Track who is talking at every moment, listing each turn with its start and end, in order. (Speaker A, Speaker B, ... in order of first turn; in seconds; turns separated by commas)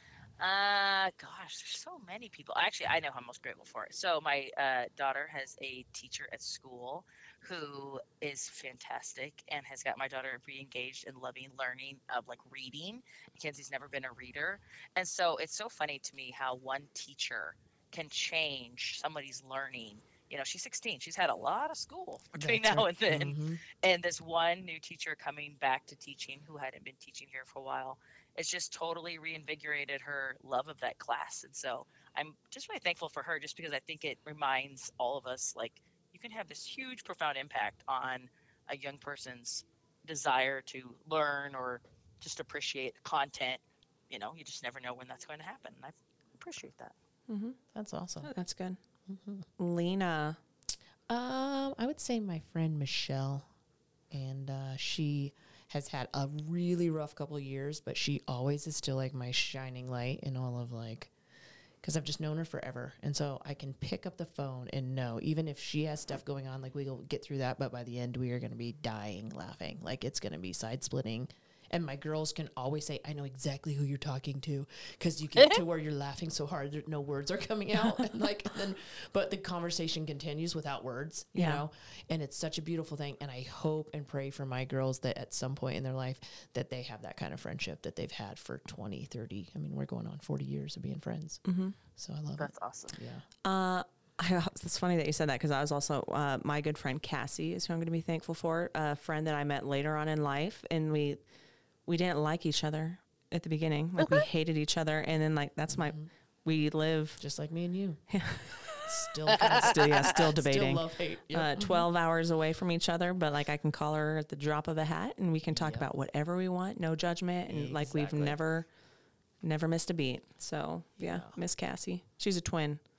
Speaker A: 0.4-46.9, Speaker B: 22.3-23.6, Speaker C: 47.3-47.6, Speaker B: 47.7-48.3, Speaker C: 48.2-48.8, Speaker B: 49.1-49.5, Speaker C: 49.6-50.4, Speaker B: 51.1-53.5, Speaker B: 54.1-61.1, Speaker B: 61.8-91.4, Speaker C: 81.3-81.6, Speaker C: 91.5-91.8, Speaker B: 92.0-93.2, Speaker A: 92.4-93.0, Speaker C: 93.4-101.2, Speaker C: 101.9-107.2, Speaker A: 104.0-104.3, Speaker B: 105.7-106.1, Speaker B: 107.2-108.0, Speaker C: 108.1-118.7, Speaker B: 108.8-111.9, Speaker A: 109.3-110.2, Speaker B: 115.5-115.9, Speaker B: 117.5-118.4, Speaker C: 119.4-122.8, Speaker B: 121.0-121.4